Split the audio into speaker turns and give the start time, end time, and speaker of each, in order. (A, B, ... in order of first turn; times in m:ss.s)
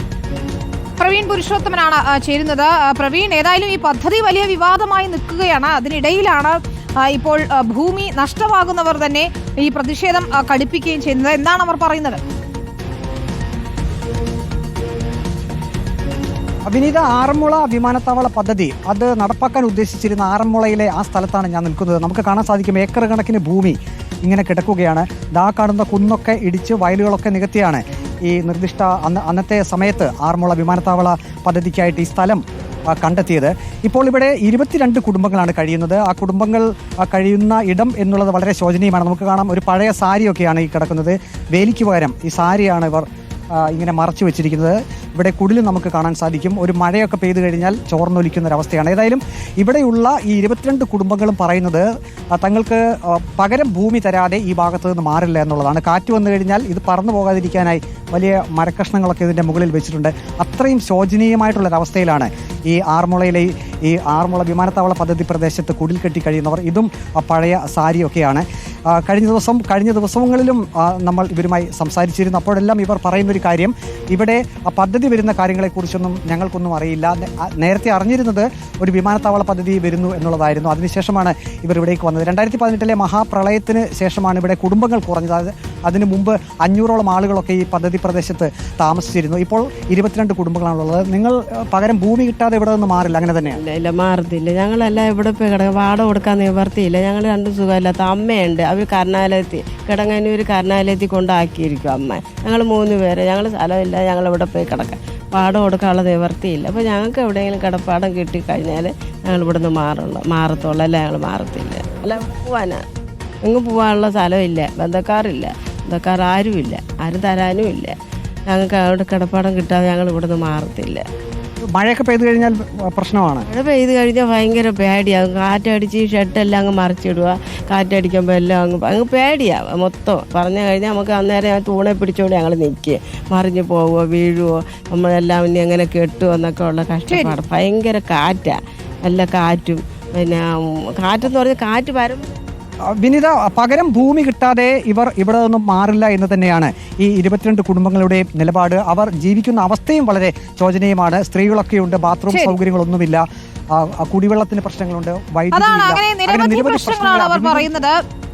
0:01.0-0:12.2 A
0:16.7-1:33.6 B
1:33.6-1:52.8 C
1:53.4-1:58.0 C
1:58.5-2:01.0 C
2:01.8-2:03.5 B
2:03.5-2:22.2 C
2:17.1-2:17.4 A
2:23.0-2:37.7 B
2:32.3-2:32.6 A
2:35.5-2:38.0 A